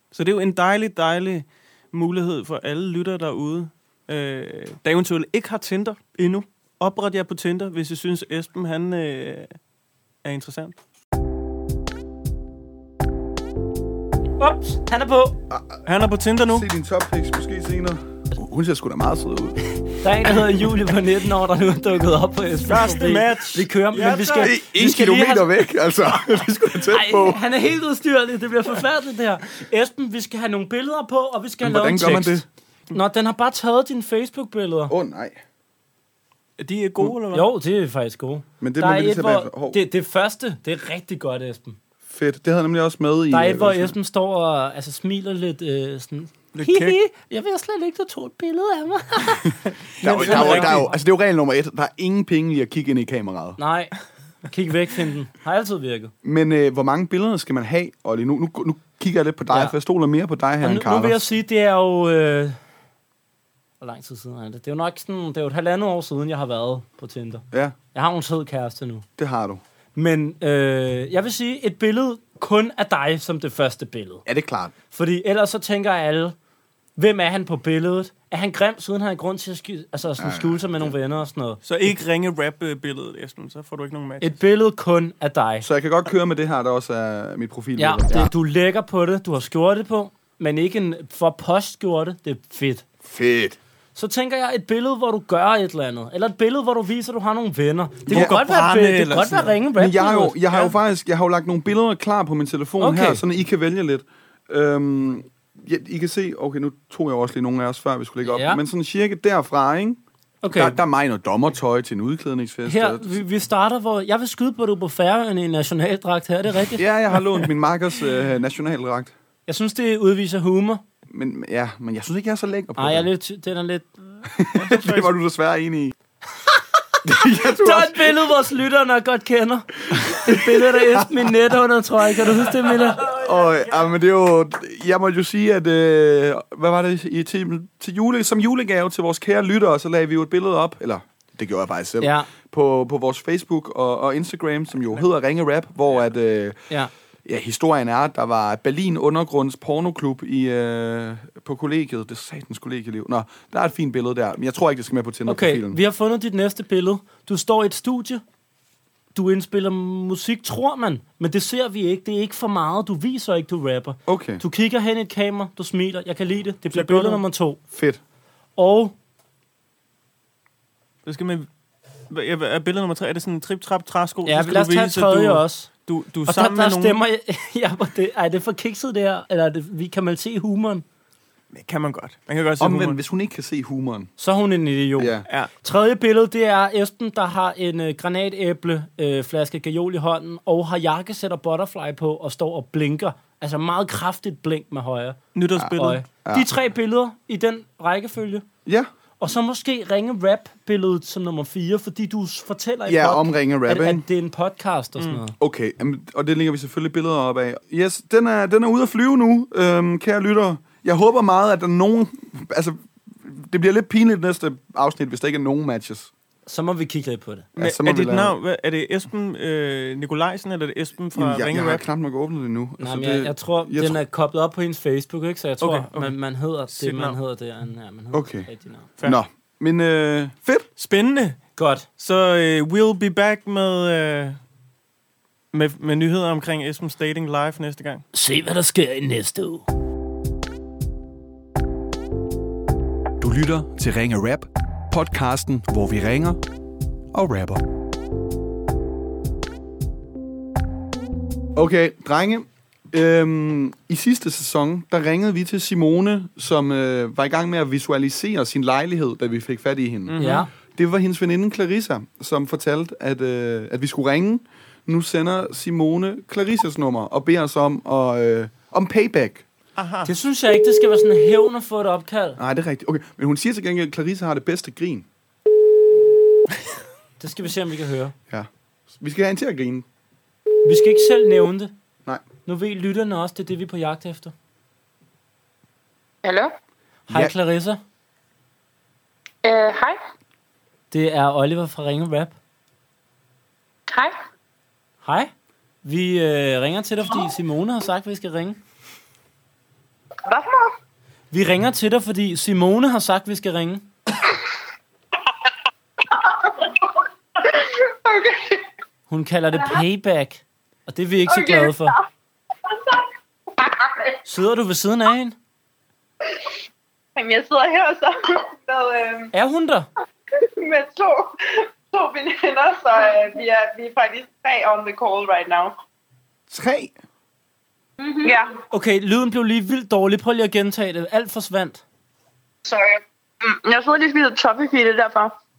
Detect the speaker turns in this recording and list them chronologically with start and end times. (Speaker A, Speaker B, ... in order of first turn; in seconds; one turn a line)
Speaker A: 0.1-9.6
Speaker A: 10.2-10.8
Speaker B: 14.4-15.3
Speaker C: 15.5-15.8
Speaker A: 15.9-16.7
Speaker C: 16.4-19.6
Speaker B: 20.0-25.5
Speaker A: 22.7-24.5
Speaker C: 24.4-27.4
Speaker B: 26.9-32.4
Speaker C: 31.6-32.5
Speaker B: 32.9-34.9
Speaker C: 34.9-35.4
Speaker A: 36.6-37.5
Speaker B: 37.3-41.8
Speaker C: 38.6-39.8
Speaker C: 42.1-44.0
Speaker B: 43.3-50.8
Speaker A: 46.5-47.0
Speaker A: 50.0-50.9
Speaker C: 50.0-53.6
Speaker B: 53.6-53.9
Speaker B: 54.5-56.1
Speaker C: 56.2-61.2
Speaker B: 59.5-59.8
Speaker B: 60.6-62.6
Speaker B: 63.8-69.0
Speaker C: 69.2-69.6
Speaker B: 70.0-74.2
Speaker C: 74.3-74.7
Speaker B: 74.9-76.3
Speaker B: 77.0-81.6
Speaker C: 80.2-80.9
Speaker A: 81.6-84.3
Speaker B: 84.2-85.7
Speaker C: 85.6-88.3
Speaker B: 87.8-92.8
Speaker C: 93.0-93.6
Speaker B: 94.0-100.6
Speaker A: 98.1-99.5
Speaker C: 98.1-98.4
Speaker C: 99.8-113.2
Speaker B: 102.8-103.2
Speaker B: 108.3-108.6
Speaker B: 110.4-110.8
Speaker B: 112.7-116.8
Speaker C: 116.8-119.1
Speaker B: 119.5-120.8
Speaker C: 121.1-123.1
Speaker B: 122.8-124.0
Speaker C: 124.4-125.9
Speaker A: 124.6-125.1
Speaker C: 127.0-128.1
Speaker B: 127.6-133.1
Speaker C: 130.0-131.3
Speaker C: 132.9-146.6
Speaker B: 142.0-142.3
Speaker C: 147.3-155.8
Speaker B: 155.3-158.2
Speaker B: 159.2-167.6
Speaker C: 164.1-164.4
Speaker C: 166.8-167.2
Speaker C: 167.7-168.0
Speaker B: 168.6-168.9
Speaker A: 171.1-171.5
Speaker A: 172.1-177.0
Speaker B: 174.3-175.7
Speaker B: 176.3-180.8
Speaker A: 181.5-183.0
Speaker C: 182.6-184.1
Speaker B: 184.2-195.2
Speaker C: 185.0-185.3
Speaker A: 195.3-196.0
Speaker C: 195.6-196.5
Speaker B: 195.7-198.5
Speaker B: 199.2-205.3
Speaker C: 202.9-204.1
Speaker C: 205.4-216.1
Speaker B: 216.5-217.5
Speaker C: 217.6-218.4
Speaker A: 217.6-221.9
Speaker C: 221.2-224.0
Speaker B: 222.8-228.9
Speaker A: 225.6-226.2
Speaker A: 226.7-227.2
Speaker C: 228.1-228.5
Speaker C: 229.0-230.7
Speaker A: 230.8-231.4
Speaker B: 231.6-231.9
Speaker A: 232.0-234.4
Speaker A: 235.5-238.0
Speaker B: 238.1-239.6
Speaker C: 243.2-246.4
Speaker C: 247.1-247.6
Speaker C: 251.6-260.2
Speaker A: 260.1-260.5
Speaker B: 260.2-260.5
Speaker C: 260.8-269.5
Speaker A: 269.8-270.1
Speaker B: 270.1-272.4
Speaker C: 272.4-275.1
Speaker B: 277.2-278.1
Speaker C: 278.3-279.9
Speaker B: 280.6-281.7
Speaker B: 282.5-284.3
Speaker B: 287.1-287.8
Speaker B: 290.9-292.4
Speaker B: 295.0-295.3
Speaker B: 295.8-298.6
Speaker D: 300.3-300.7
Speaker B: 301.3-303.9
Speaker D: 307.4-308.6
Speaker B: 309.1-312.0
Speaker D: 311.3-312.0
Speaker D: 313.6-314.1
Speaker B: 314.3-315.4
Speaker D: 317.2-319.3
Speaker B: 319.3-319.9
Speaker D: 320.6-325.8
Speaker C: 326.5-326.9
Speaker D: 328.0-328.6
Speaker B: 328.7-331.8
Speaker D: 332.6-335.4